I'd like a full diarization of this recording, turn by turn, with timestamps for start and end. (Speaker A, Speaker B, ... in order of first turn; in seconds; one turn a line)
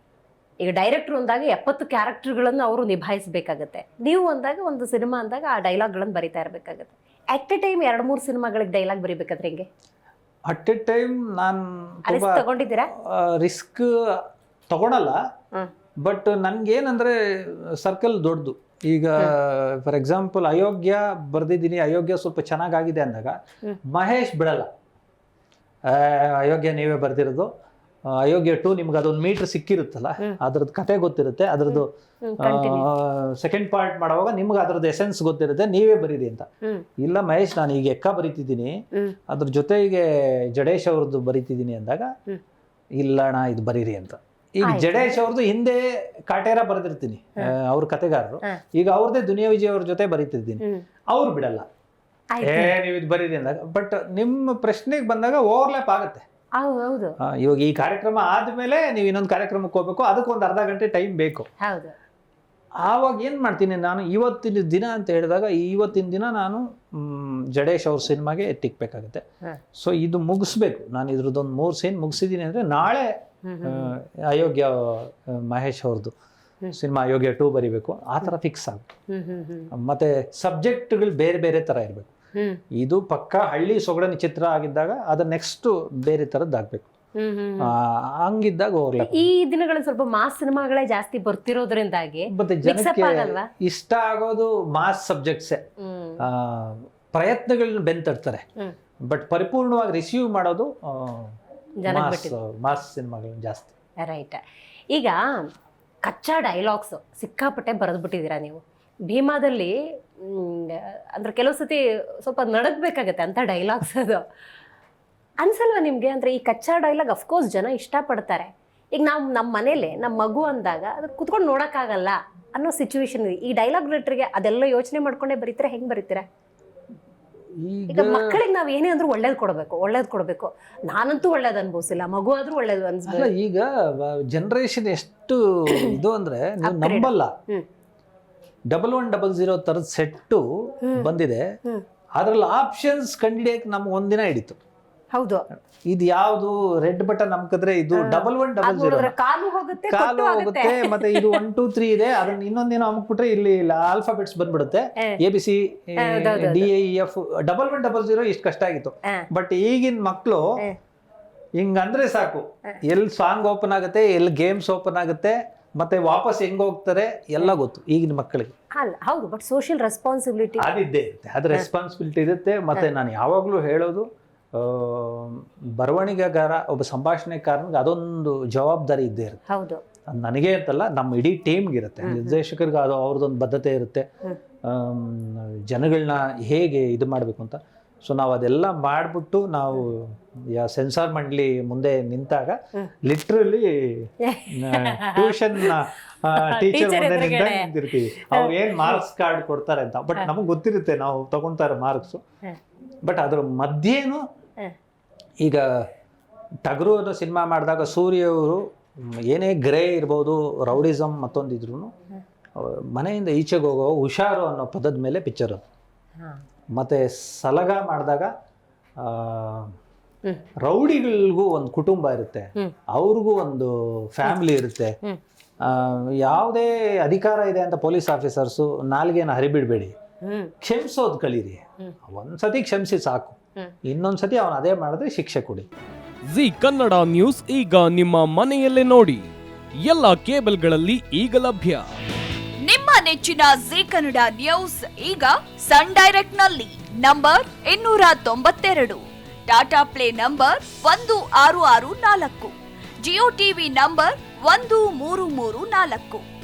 Speaker A: 0.6-9.7
Speaker B: 10.5-12.4
Speaker A: 12.1-12.9
Speaker B: 12.9-14.2
Speaker B: 14.7-15.2
Speaker B: 16.0-23.4
Speaker B: 23.9-24.7
Speaker B: 25.9-27.5
Speaker B: 28.1-36.5
Speaker A: 31.7-32.9
Speaker B: 37.0-42.1
Speaker B: 43.0-51.7
Speaker A: 44.6-45.1
Speaker A: 52.3-52.7
Speaker B: 52.4-56.2
Speaker A: 56.6-57.2
Speaker B: 57.2-61.5
Speaker A: 61.6-61.9
Speaker B: 62.8-69.2
Speaker B: 69.7-76.1
Speaker A: 73.5-73.9
Speaker B: 76.7-78.9
Speaker A: 79.1-79.7
Speaker B: 79.7-82.1
Speaker B: 82.8-86.9
Speaker A: 87.2-87.7
Speaker B: 87.6-89.3
Speaker A: 89.0-93.5
Speaker B: 92.3-95.6
Speaker A: 95.8-96.2
Speaker B: 96.2-98.4
Speaker B: 99.1-101.3
Speaker A: 101.8-102.3
Speaker B: 101.9-103.8
Speaker A: 104.0-104.4
Speaker A: 104.9-105.5
Speaker A: 106.0-114.2
Speaker A: 115.4-126.2
Speaker B: 127.6-128.4
Speaker A: 127.9-133.3
Speaker B: 133.1-137.3
Speaker A: 136.6-137.7
Speaker B: 138.7-141.5
Speaker B: 142.2-144.6
Speaker A: 145.1-145.4
Speaker B: 145.9-149.1
Speaker A: 147.9-151.4
Speaker B: 149.9-160.5
Speaker A: 156.0-156.7
Speaker B: 161.6-168.5
Speaker A: 168.8-170.7
Speaker B: 170.6-179.4
Speaker A: 179.5-179.8
Speaker B: 180.1-184.1
Speaker A: 182.0-182.4
Speaker B: 184.7-202.2
Speaker A: 194.2-195.8
Speaker A: 196.4-199.0
Speaker B: 203.0-204.2
Speaker B: 205.4-205.9
Speaker B: 206.7-211.9
Speaker B: 212.6-215.6
Speaker B: 216.8-218.3
Speaker B: 219.0-219.7
Speaker B: 220.6-225.0
Speaker B: 225.6-229.9
Speaker A: 230.2-230.5
Speaker B: 230.6-235.7
Speaker C: 236.3-239.3
Speaker C: 239.8-241.9
Speaker D: 242.6-256.2